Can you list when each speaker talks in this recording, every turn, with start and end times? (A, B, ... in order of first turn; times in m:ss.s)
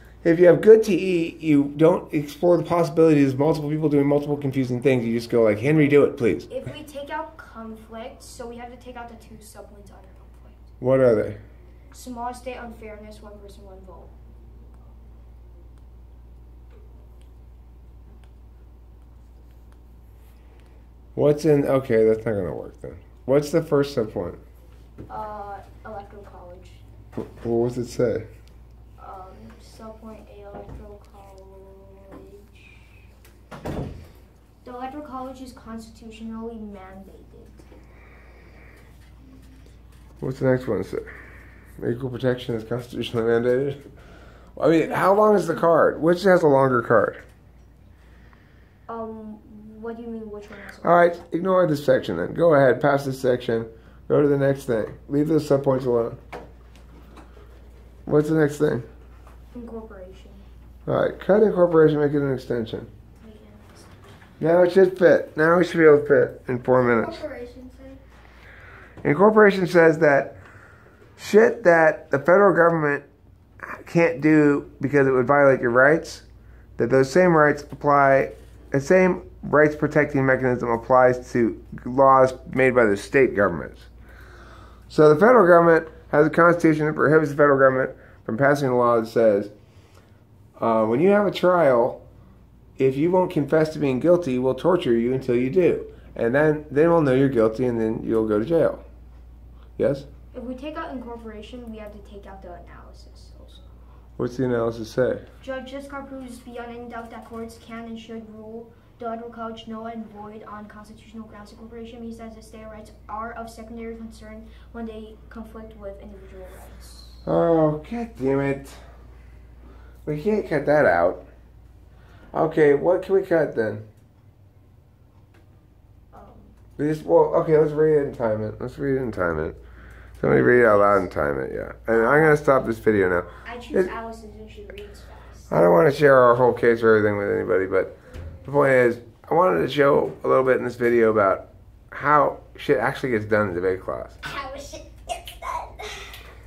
0:00.2-0:06.5 A
0:06.5-0:10.6 B
0:10.8-0:11.4 A
0:11.9-0:14.1 B
0:21.2-0:24.4 A
0:25.1-0:26.8 B
0:27.2-0:28.3 A
0:29.0-0:33.0 B
0:34.6-0:37.6 B
0:40.2-0:41.1 A
0:41.8-0:43.8 A
0:44.6-0:47.2 A
0:45.1-0:45.6 B
0:48.9-0:51.3 B
0:50.8-0:56.2 A
0:58.1-0:58.9 A
0:59.5-1:00.4 B
1:00.9-1:02.9 A
1:03.2-1:04.1 B
1:04.4-1:07.2 A
1:06.7-1:08.0 C
1:09.0-1:10.4 A
1:11.2-1:13.1 A
1:13.6-1:16.3 A
1:16.8-1:23.9 A
1:24.9-1:29.5 A
1:30.6-1:32.0 A
1:32.8-1:38.8 A
1:39.8-1:40.1 A
1:40.3-1:43.6 B
1:44.2-1:45.2 A
1:45.4-1:57.2 B
1:57.2-1:58.8 A
2:00.1-2:01.2 A
2:02.3-2:03.9 A
2:06.1-2:06.6 B
2:06.8-2:09.6 A
2:10.2-2:13.9 A
2:10.2-2:11.1 B
2:12.0-2:12.3 B
2:13.4-2:15.5 B
2:15.5-2:24.2 A
2:24.2-2:26.1 C